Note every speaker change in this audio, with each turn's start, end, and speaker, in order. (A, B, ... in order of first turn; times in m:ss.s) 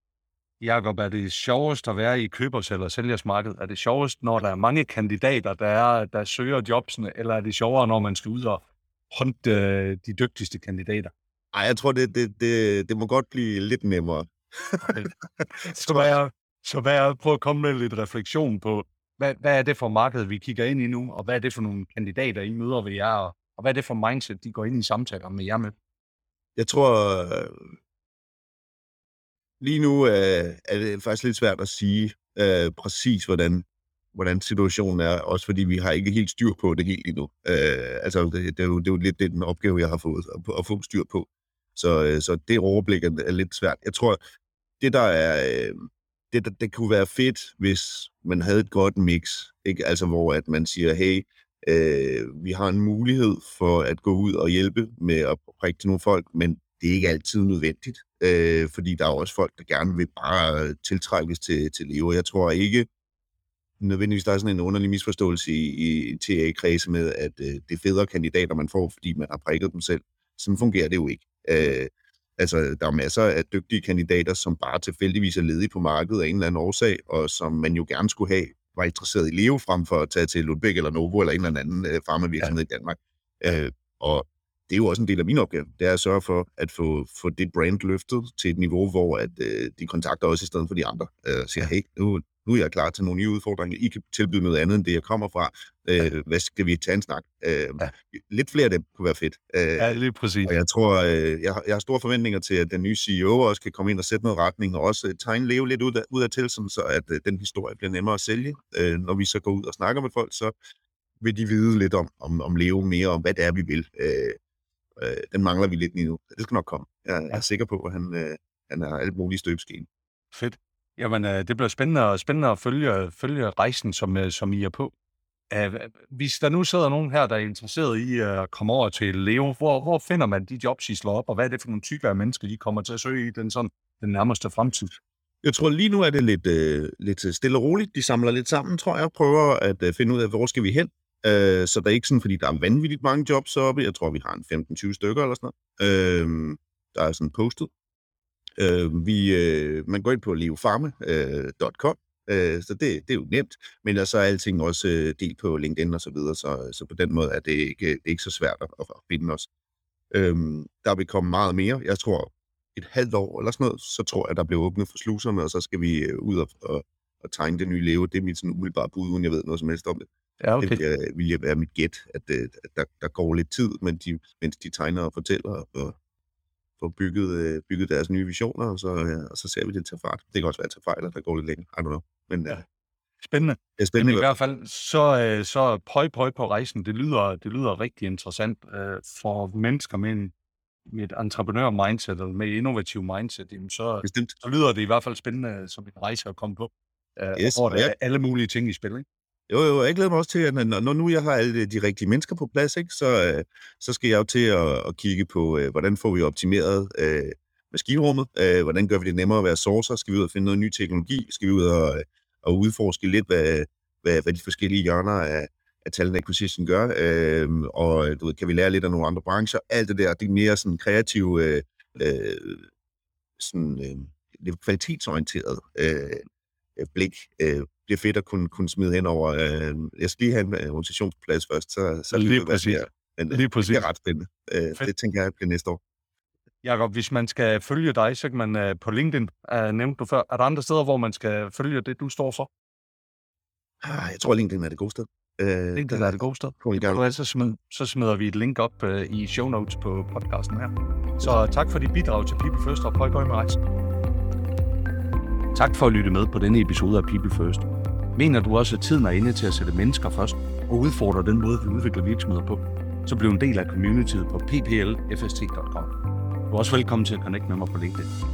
0:00.6-0:11.1 A
0:11.5-0:16.2 B
0:14.8-0:25.8 A
0:26.6-0:27.7 B
0:29.6-0:44.2 B
0:44.8-1:02.9 B
1:03.8-1:50.5 B
1:39.8-1:40.6 A
1:51.2-1:54.4 B
1:55.0-1:59.9 B
2:00.3-2:04.9 A
2:05.5-2:15.0 A
2:15.4-2:27.7 B
2:28.6-2:39.5 B
2:40.1-2:50.1 B
2:50.4-2:50.8 A
2:50.6-2:56.0 B
2:56.8-3:02.6 B
3:03.2-3:10.3 A
3:03.8-3:04.3 B
3:10.9-3:19.0 A
3:14.0-3:14.3 B
3:17.4-3:17.9 B
3:19.5-3:42.7 B
3:43.4-3:46.3 B
3:46.8-3:55.8 B
3:52.1-3:53.9 A
3:56.6-4:02.5 A
4:03.8-4:07.0 B
4:05.8-4:13.6 A
4:15.6-4:25.9 A
4:26.5-4:28.1 A